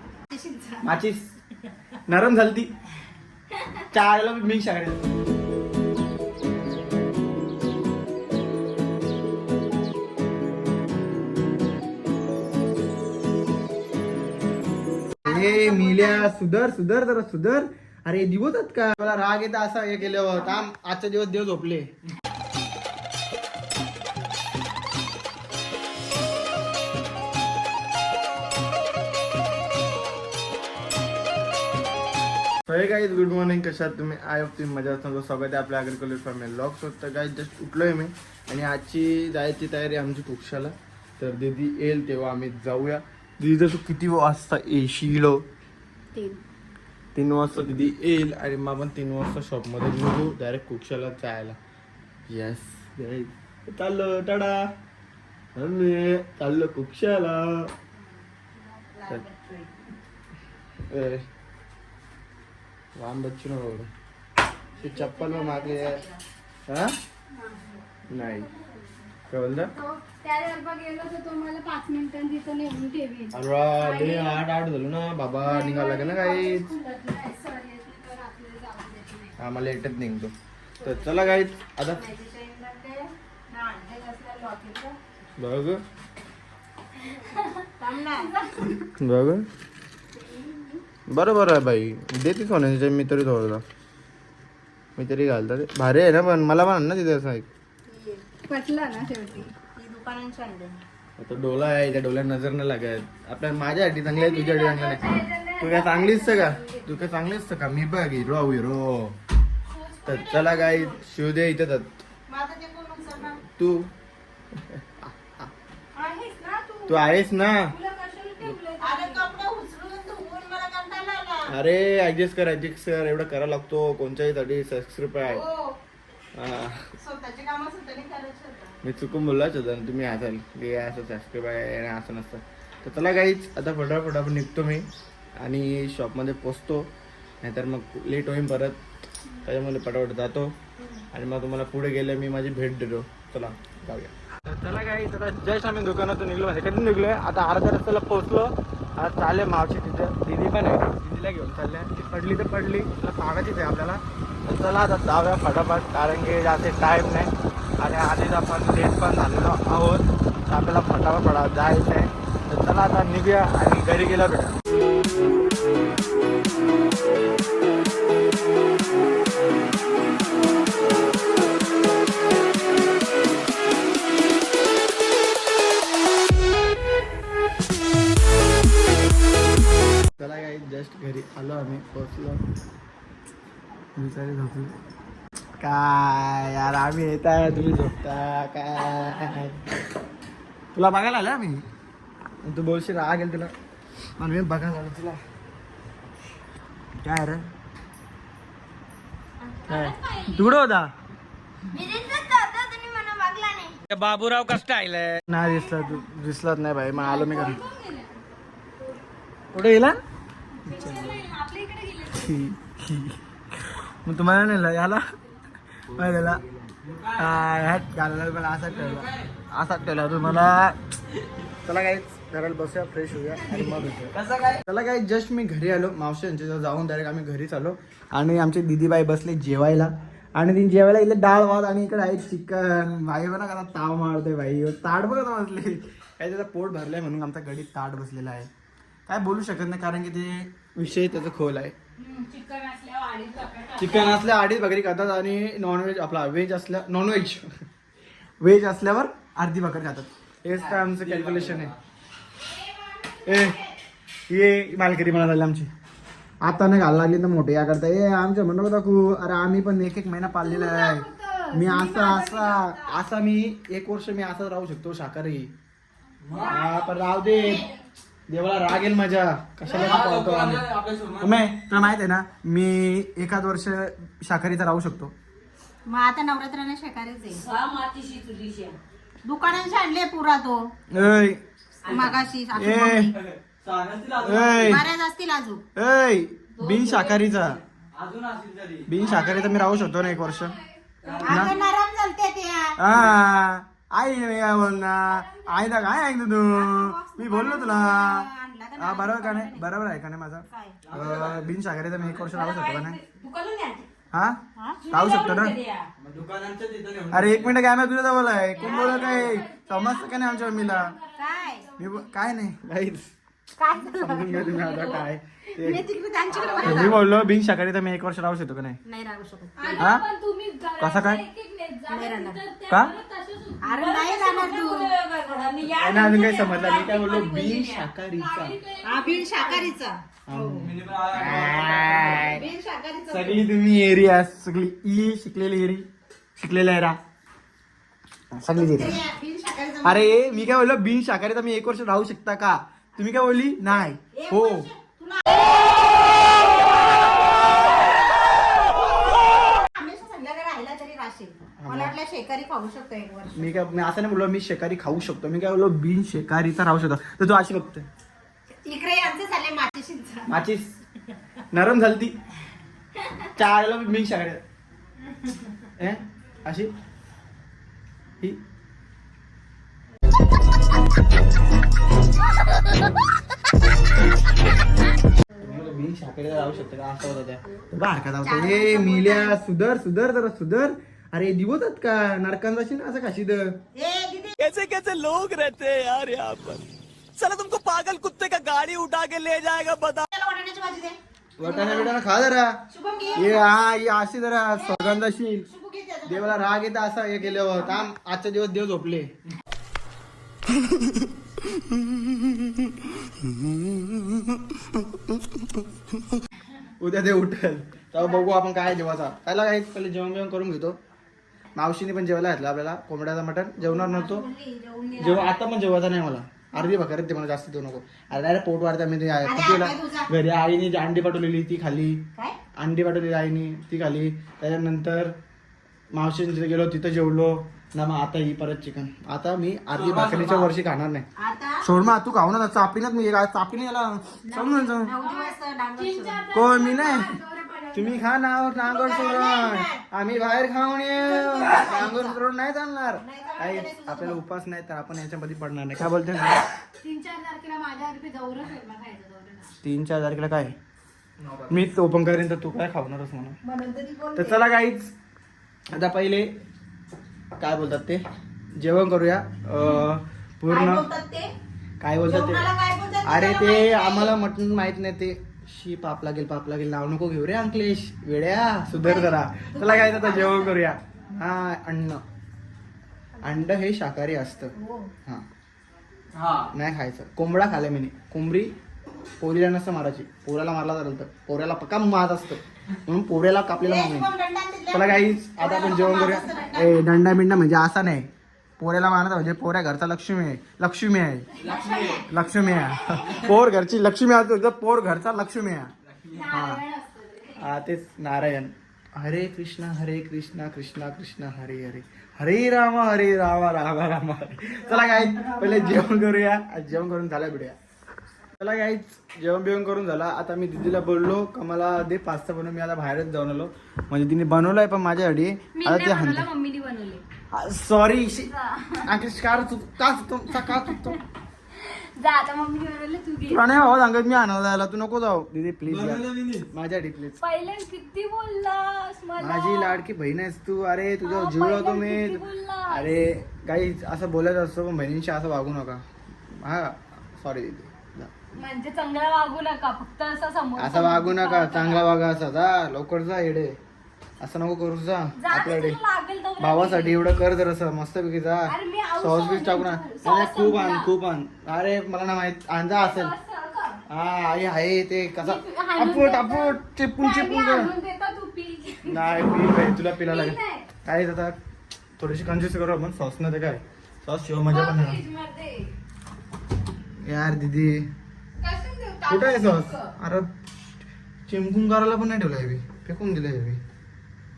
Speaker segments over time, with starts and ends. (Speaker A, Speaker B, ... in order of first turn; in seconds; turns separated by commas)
Speaker A: 0.3-0.9, Speaker B: 0.8-1.3, Speaker B: 2.1-2.7, Speaker B: 3.9-5.1, Speaker B: 15.2-21.9, Speaker A: 15.2-16.3, Speaker B: 32.7-45.4, Speaker B: 47.1-51.6, Speaker B: 52.3-54.7, Speaker B: 55.5-57.7, Speaker A: 58.7-59.8, Speaker B: 60.9-61.2, Speaker B: 63.0-63.9, Speaker A: 64.8-66.2, Speaker B: 64.8-66.0, Speaker B: 66.7-67.0, Speaker B: 68.1-68.5, Speaker C: 68.2-68.4, Speaker B: 69.3-69.7, Speaker C: 69.8-74.4, Speaker B: 73.3-76.7, Speaker C: 75.4-79.3, Speaker B: 79.4-82.0, Speaker A: 80.8-85.0, Speaker B: 85.4-85.8, Speaker C: 87.2-88.9, Speaker A: 87.8-88.5, Speaker B: 89.0-89.5, Speaker A: 90.2-90.8, Speaker B: 91.1-93.6, Speaker B: 95.0-97.5, Speaker A: 97.9-98.4, Speaker C: 98.4-99.5, Speaker A: 99.6-100.8, Speaker B: 101.2-105.0, Speaker C: 104.1-106.9, Speaker B: 105.6-109.2, Speaker C: 109.7-110.9, Speaker B: 110.0-112.0, Speaker A: 110.1-110.7, Speaker A: 112.3-113.4, Speaker B: 113.5-113.9, Speaker B: 114.6-115.5, Speaker C: 116.0-116.9, Speaker B: 116.9-117.7, Speaker C: 117.7-119.3, Speaker A: 118.8-121.5, Speaker B: 121.5-125.4, Speaker A: 125.2-125.8, Speaker B: 126.3-126.9, Speaker A: 127.0-128.8, Speaker B: 128.8-136.9, Speaker B: 137.4-138.8, Speaker B: 139.4-140.5, Speaker B: 141.1-164.5, Speaker B: 180.2-182.4, Speaker B: 184.0-184.8, Speaker B: 185.6-189.7, Speaker B: 190.7-191.7, Speaker B: 192.4-193.5, Speaker B: 194.2-195.2, Speaker B: 197.0-197.4, Speaker C: 199.4-200.6, Speaker B: 199.7-200.9, Speaker A: 201.7-203.8, Speaker C: 201.8-202.6, Speaker D: 203.9-205.3, Speaker B: 205.3-207.6, Speaker C: 205.4-206.0, Speaker C: 206.9-208.2, Speaker B: 209.5-210.0, Speaker C: 210.6-212.4, Speaker B: 210.7-211.2, Speaker B: 212.1-215.1, Speaker B: 215.9-216.4, Speaker D: 216.7-217.4, Speaker B: 217.1-220.8, Speaker D: 218.7-219.3, Speaker B: 221.7-238.5, Speaker D: 224.2-224.6, Speaker B: 239.1-241.8, Speaker C: 242.0-244.2, Speaker B: 243.8-247.5, Speaker B: 248.4-251.8, Speaker D: 250.6-251.8, Speaker A: 252.6-253.7, Speaker B: 253.2-253.6, Speaker B: 254.3-255.7, Speaker B: 256.4-265.5, Speaker C: 260.3-262.8, Speaker D: 266.2-266.6, Speaker C: 266.3-267.6, Speaker B: 266.4-267.7, Speaker A: 267.3-267.7, Speaker B: 268.3-270.7, Speaker D: 269.6-271.4, Speaker B: 271.2-275.1, Speaker A: 275.9-277.4, Speaker C: 277.3-278.8, Speaker A: 279.2-280.7, Speaker B: 280.9-281.4, Speaker A: 281.9-283.2, Speaker D: 281.9-282.2, Speaker B: 282.6-283.1, Speaker D: 283.1-284.8, Speaker B: 284.2-284.9, Speaker A: 284.6-285.6, Speaker B: 285.8-287.6, Speaker C: 286.6-287.2, Speaker D: 287.9-289.4, Speaker B: 288.9-290.6, Speaker C: 289.2-290.5, Speaker D: 291.0-291.4, Speaker A: 291.1-292.8, Speaker B: 291.2-291.6, Speaker C: 291.4-291.7, Speaker B: 292.8-298.3, Speaker C: 295.1-295.6, Speaker A: 296.5-299.7, Speaker B: 298.8-303.0, Speaker A: 300.5-300.8, Speaker D: 300.9-302.3, Speaker C: 302.3-303.9, Speaker B: 304.1-305.6, Speaker C: 304.8-305.9, Speaker D: 306.0-307.5, Speaker B: 307.1-310.9, Speaker C: 308.6-312.2, Speaker D: 309.0-309.4, Speaker A: 311.2-311.7, Speaker B: 311.8-313.1, Speaker A: 313.6-315.0, Speaker B: 313.9-315.9, Speaker A: 315.6-317.0, Speaker C: 316.3-317.0, Speaker B: 316.6-318.8, Speaker A: 318.9-319.9, Speaker C: 319.6-329.8, Speaker B: 319.8-320.1, Speaker B: 320.8-321.2, Speaker A: 321.9-322.4, Speaker A: 323.6-324.9, Speaker B: 325.8-328.6, Speaker A: 328.8-330.8, Speaker B: 330.3-332.4, Speaker D: 330.6-332.3, Speaker A: 331.9-333.4, Speaker B: 333.1-337.0, Speaker B: 338.3-339.0, Speaker A: 338.5-340.3, Speaker B: 339.8-344.7, Speaker A: 344.1-346.4, Speaker A: 348.8-353.6, Speaker B: 351.6-351.9, Speaker B: 353.4-357.9, Speaker A: 358.6-360.3, Speaker B: 360.3-360.7, Speaker B: 361.5-362.1, Speaker B: 363.4-364.4, Speaker B: 365.8-366.7, Speaker B: 375.4-383.6, Speaker A: 378.2-379.4, Speaker A: 383.8-384.4, Speaker D: 384.4-390.1, Speaker A: 390.1-391.9, Speaker B: 391.4-392.6, Speaker A: 392.7-393.5, Speaker B: 393.1-395.5, Speaker A: 394.5-396.5, Speaker B: 396.1-399.1, Speaker A: 397.4-397.8, Speaker B: 406.8-410.8, Speaker B: 411.6-414.3, Speaker A: 413.7-415.4, Speaker B: 415.0-422.0, Speaker A: 419.2-420.1, Speaker B: 422.6-425.1, Speaker B: 425.9-431.1, Speaker D: 429.7-430.5, Speaker A: 431.2-431.7, Speaker B: 431.6-434.9, Speaker A: 434.3-436.3, Speaker C: 434.9-438.1, Speaker B: 436.3-437.2, Speaker B: 437.7-446.5, Speaker A: 438.6-439.8, Speaker A: 441.1-442.2, Speaker A: 443.0-444.2, Speaker C: 446.8-449.5, Speaker B: 449.6-450.6, Speaker B: 451.5-453.4, Speaker A: 453.4-454.5, Speaker B: 454.2-454.9, Speaker B: 455.7-456.3, Speaker B: 457.4-458.0, Speaker B: 458.6-460.9, Speaker A: 460.5-461.3, Speaker B: 461.8-462.5, Speaker A: 462.1-464.2, Speaker B: 463.1-472.0, Speaker A: 468.8-470.6, Speaker B: 473.2-474.5, Speaker A: 474.6-474.9, Speaker D: 476.1-476.5, Speaker B: 476.5-478.5, Speaker B: 479.2-484.1, Speaker A: 483.6-486.8, Speaker B: 484.7-491.3, Speaker D: 491.4-492.0, Speaker A: 491.4-492.1, Speaker C: 491.4-493.1, Speaker B: 492.1-495.7, Speaker D: 495.9-496.3, Speaker C: 496.1-497.4, Speaker B: 496.3-496.6, Speaker B: 497.4-507.6, Speaker B: 508.4-516.3, Speaker C: 515.5-517.0, Speaker B: 517.3-521.0, Speaker C: 518.3-518.9, Speaker C: 520.6-521.0, Speaker C: 521.5-523.4, Speaker B: 523.3-527.2, Speaker D: 525.7-526.5, Speaker C: 527.2-529.8, Speaker B: 529.2-538.1, Speaker C: 531.0-532.9, Speaker C: 538.4-541.9, Speaker B: 540.6-543.6, Speaker B: 544.2-545.8, Speaker C: 545.2-547.2, Speaker B: 546.4-553.1, Speaker C: 548.5-550.9, Speaker C: 552.8-553.8, Speaker B: 553.9-557.7, Speaker C: 555.2-559.3, Speaker B: 558.9-561.4, Speaker C: 560.0-560.7, Speaker B: 562.0-565.0, Speaker C: 564.5-565.7, Speaker B: 567.0-567.9, Speaker C: 568.4-569.9, Speaker B: 569.1-570.3, Speaker B: 571.3-573.6